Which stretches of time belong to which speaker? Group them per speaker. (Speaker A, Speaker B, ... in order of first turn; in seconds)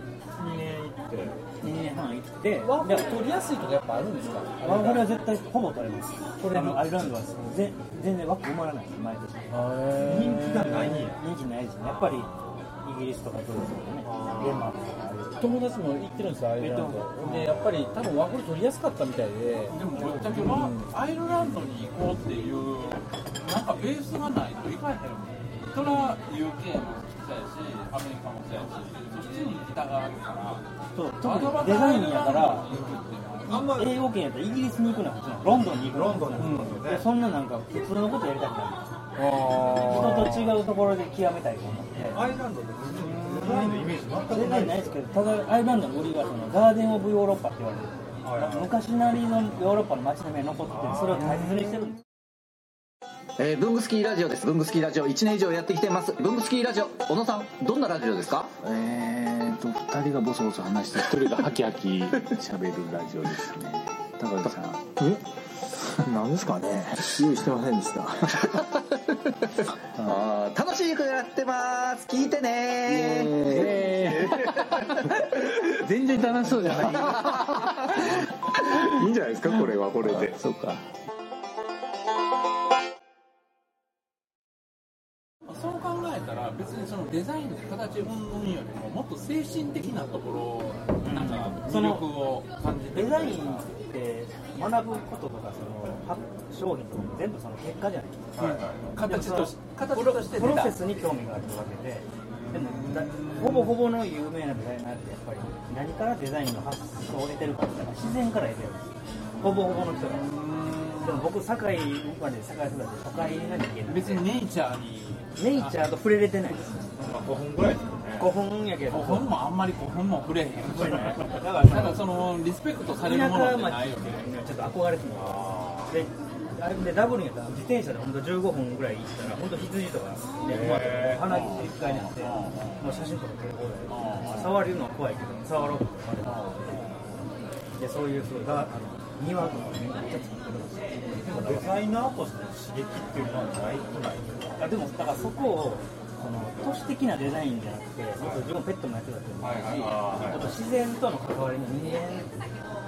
Speaker A: 0.4-1.4, 10.0-11.2, 14.0-14.8, 33.5-34.1, 35.5-37.1, 42.1-45.0, 48.2-48.8, 50.7-51.5, 98.3-98.9, 117.0-118.3, 125.1-126.0, 130.4-131.3, 141.2-144.3, 148.2-148.5, 149.4-150.6
Speaker B: 1.6-3.1, 4.6-9.5, 11.1-15.4, 16.6-17.6, 20.0-20.2, 30.9-32.7, 33.6-38.9, 39.7-42.2, 43.1-52.0, 91.0-92.1, 92.9-98.3, 99.0-108.9, 109.4-110.3, 111.0-114.3, 115.4-116.9, 118.2-119.4, 120.7-122.1, 123.0-136.8, 137.8-141.8, 144.6-152.3
Speaker C: 2.6-5.2, 6.4-7.1, 9.5-11.1, 15.4-19.8, 20.3-20.9, 36.4-36.8, 39.2-40.6, 73.7-74.3
Speaker D: 19.7-30.6, 31.2-33.7, 85.5-93.7, 98.4-101.0, 102.5-103.7, 110.0-111.3, 113.9-115.7, 118.9-124.3, 131.0-132.8, 133.9-134.6, 136.2-137.0, 149.7-150.0
Speaker E: 53.4-58.6, 70.0-75.1, 76.4-78.2, 79.0-80.4
Speaker F: 58.6-65.2, 66.0-68.5, 72.9-74.5, 75.8-77.7, 79.0-80.9